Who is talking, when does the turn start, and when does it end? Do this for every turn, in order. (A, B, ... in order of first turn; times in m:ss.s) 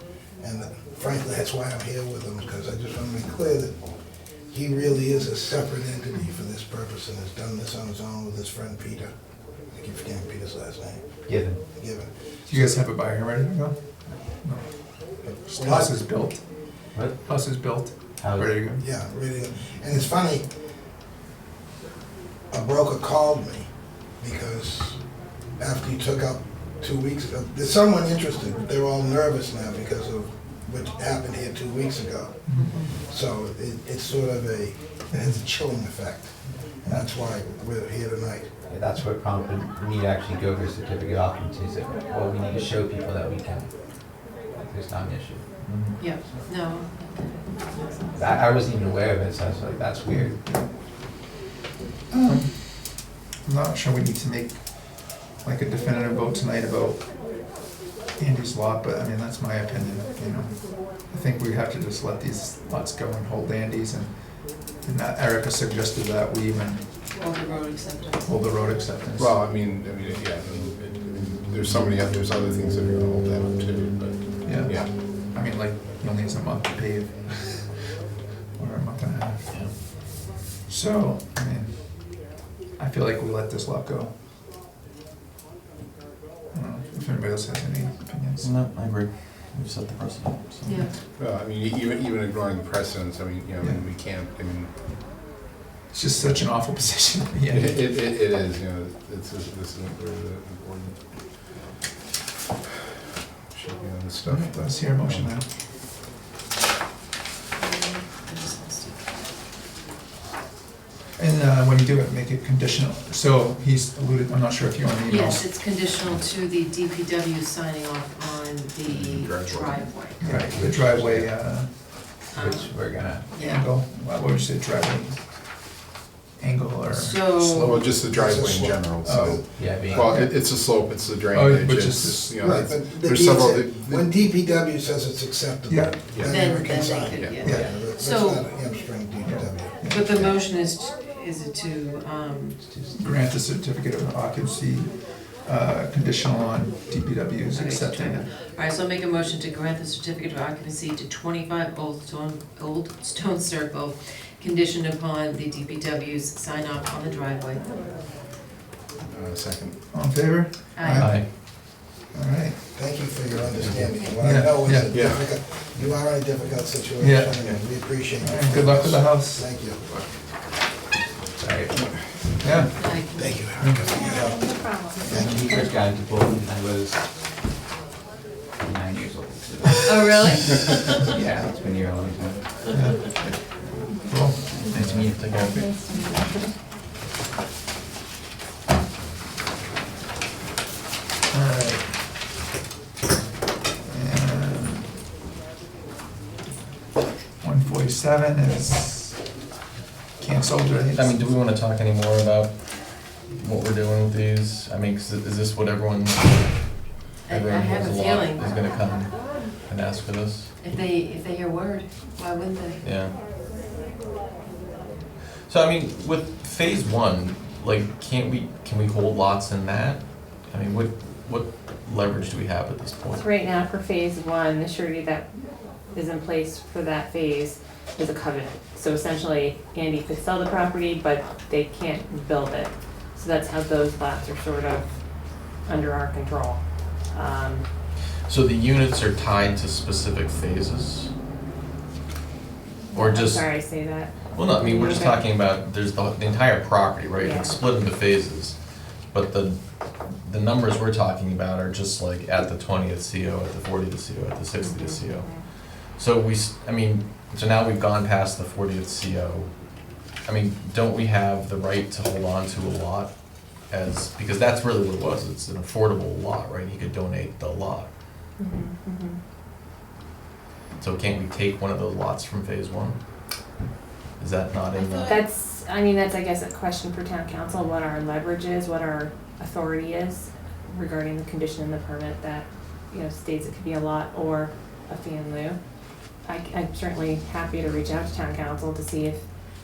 0:00.4-0:03.8 A
0:04.5-0:09.1 A
0:09.7-0:11.0 A
0:11.3-0:11.6 B
0:11.7-0:12.8 A
0:12.5-0:13.8 C
0:14.4-0:14.7 C
0:15.2-0:16.0 A
0:15.3-0:16.4 C
0:16.9-0:17.2 B
0:17.2-0:18.8 C
0:18.2-0:18.6 B
0:18.8-0:20.4 A
0:22.5-0:25.0 A
0:25.6-0:38.5 A
0:32.5-0:32.9 D
0:38.7-0:45.4 B
0:45.6-0:45.9 C
0:46.0-0:48.3 D
0:48.1-0:50.4 B
0:50.1-0:50.7 C
0:52.1-0:57.1 C
0:58.2-1:04.1 C
1:04.6-1:06.8 C
1:07.2-1:08.3 D
1:08.2-1:09.3 C
1:09.2-1:14.9 E
1:14.4-1:17.8 C
1:18.6-1:24.1 C
1:19.5-1:19.7 F
1:26.5-1:28.5 C
1:28.4-1:30.8 F
1:31.1-1:34.7 E
1:35.9-1:37.9 C
1:37.5-1:41.0 E
1:43.5-1:45.3 E
1:44.2-1:45.5 C
1:47.6-1:48.9 D
1:51.2-1:55.4 C
1:55.1-2:00.2 D
1:55.1-1:55.6 G
1:56.2-1:57.0 G
1:58.9-1:59.9 E
1:58.9-2:00.5 G
2:00.2-2:01.4 B
2:00.2-2:01.8 C
2:02.3-2:03.3 B
2:02.4-2:02.6 G
2:03.3-2:03.6 G
2:03.4-2:05.2 C
2:06.4-2:07.9 C
2:06.9-2:07.6 D
2:07.6-2:14.1 E
2:07.9-2:09.4 A
2:09.0-2:09.4 C
2:09.6-2:10.2 B
2:09.9-2:10.3 C
2:11.3-2:12.7 C
2:12.4-2:20.3 A
2:15.7-2:16.3 C
2:16.1-2:16.4 E
2:16.3-2:17.4 D
2:17.1-2:17.4 E
2:17.4-2:17.9 B
2:18.1-2:18.4 D
2:19.2-2:20.0 C
2:19.9-2:22.6 D
2:22.6-2:23.2 B
2:22.9-2:28.2 C
2:27.5-2:37.7 D
2:39.1-2:39.8 E
2:39.9-2:41.4 C
2:40.8-2:41.1 G
2:41.0-2:41.2 F
2:42.1-2:42.6 C
2:42.7-2:49.8 A
2:44.2-2:45.0 C
2:44.9-2:45.3 E
2:47.0-2:49.5 C
2:51.4-2:51.7 B
2:52.4-2:52.8 C
2:52.8-2:53.3 D
2:53.1-2:54.7 A
2:53.6-2:54.0 C
2:53.9-2:55.2 G
2:55.0-2:57.0 B
2:58.6-3:02.5 B
2:59.9-3:00.8 D
2:59.9-3:00.7 G
3:02.7-3:03.0 C
3:04.0-3:05.1 C
3:04.6-3:05.3 B
3:04.8-3:05.6 F
3:05.3-3:06.5 G
3:11.3-3:12.0 C
3:13.8-3:14.9 C
3:17.4-3:19.2 C
3:20.2-3:21.2 C
3:20.9-3:30.5 F
3:27.3-3:28.4 G
3:27.4-3:28.5 D
3:30.6-3:31.3 G
3:30.6-3:32.8 D
3:31.9-3:32.7 G
3:32.8-3:33.2 F
3:35.5-3:43.2 F
3:43.1-3:45.3 G
3:45.9-3:54.8 G
3:55.6-3:57.6 G
3:58.2-4:01.1 F
4:02.9-4:05.3 G
4:02.9-4:03.4 F
4:04.3-4:08.6 F
4:07.2-4:07.6 G
4:09.1-4:19.5 F
4:14.6-4:15.5 G
4:20.2-4:23.1 F
4:23.7-4:27.9 F
4:28.4-4:29.2 G
4:30.8-4:33.0 F
4:34.2-4:35.2 F
4:34.7-4:45.6 G
4:46.2-4:49.2 G